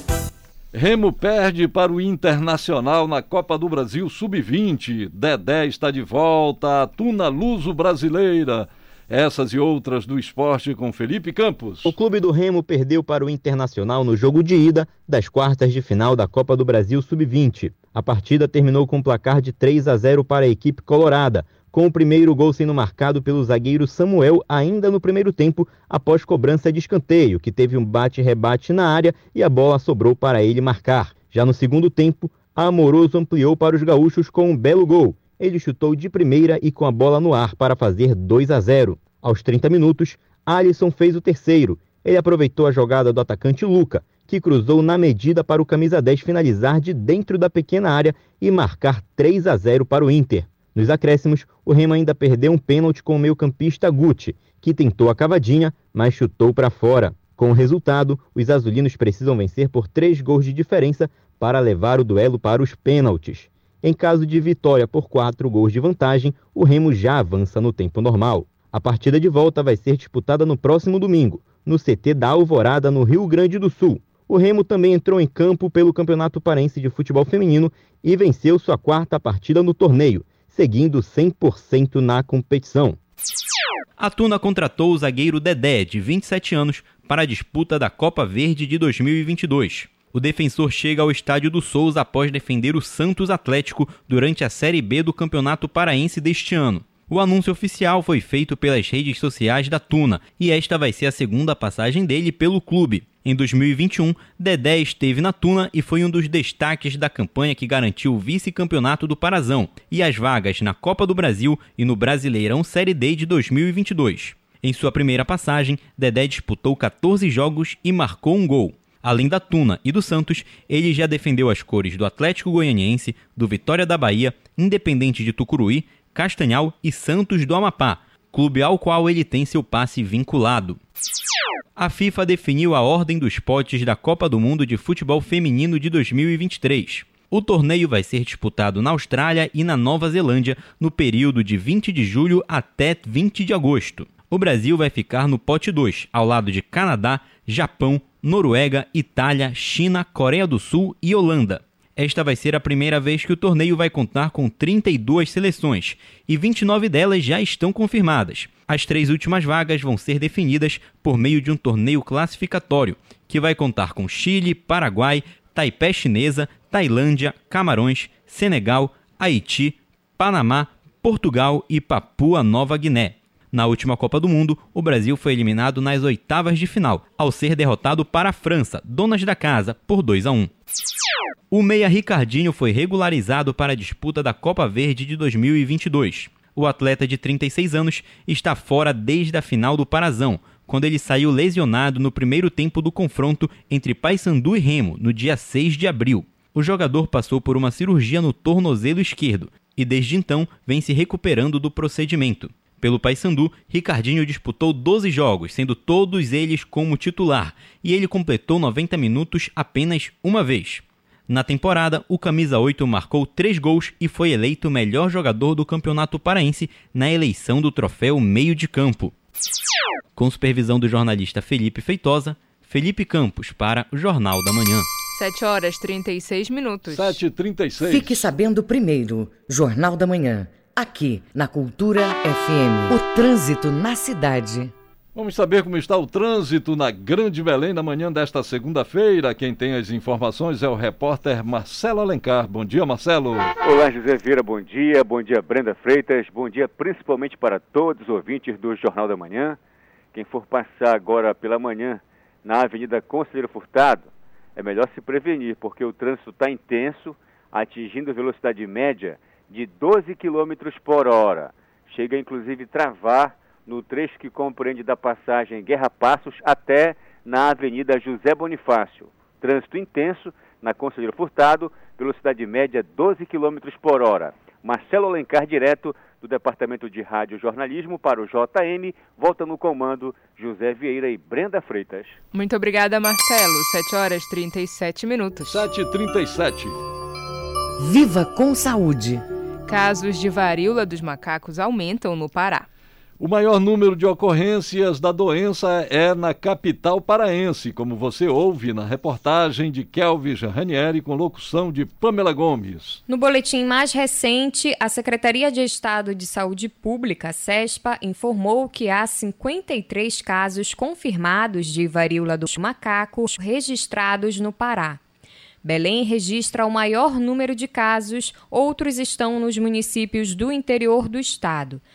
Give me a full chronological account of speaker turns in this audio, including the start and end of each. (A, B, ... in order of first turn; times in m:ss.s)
0:00.7-0:12.0 A
0:11.8-1:23.0 B
1:24.0-2:10.8 C
2:11.8-3:00.5 C
3:01.5-3:39.1 C
3:40.2-3:44.9 C
3:45.1-3:47.2 D
3:46.9-3:48.3 A
3:47.8-3:54.7 E
3:55.1-4:03.5 A
4:03.6-4:09.6 F
4:10.1-4:42.2 F
4:42.3-4:45.6 D
4:45.5-4:46.8 A
4:47.8-4:49.2 E
4:49.7-4:52.6 D
4:53.2-5:03.0 A
5:03.1-5:15.0 G
5:15.6-5:21.8 G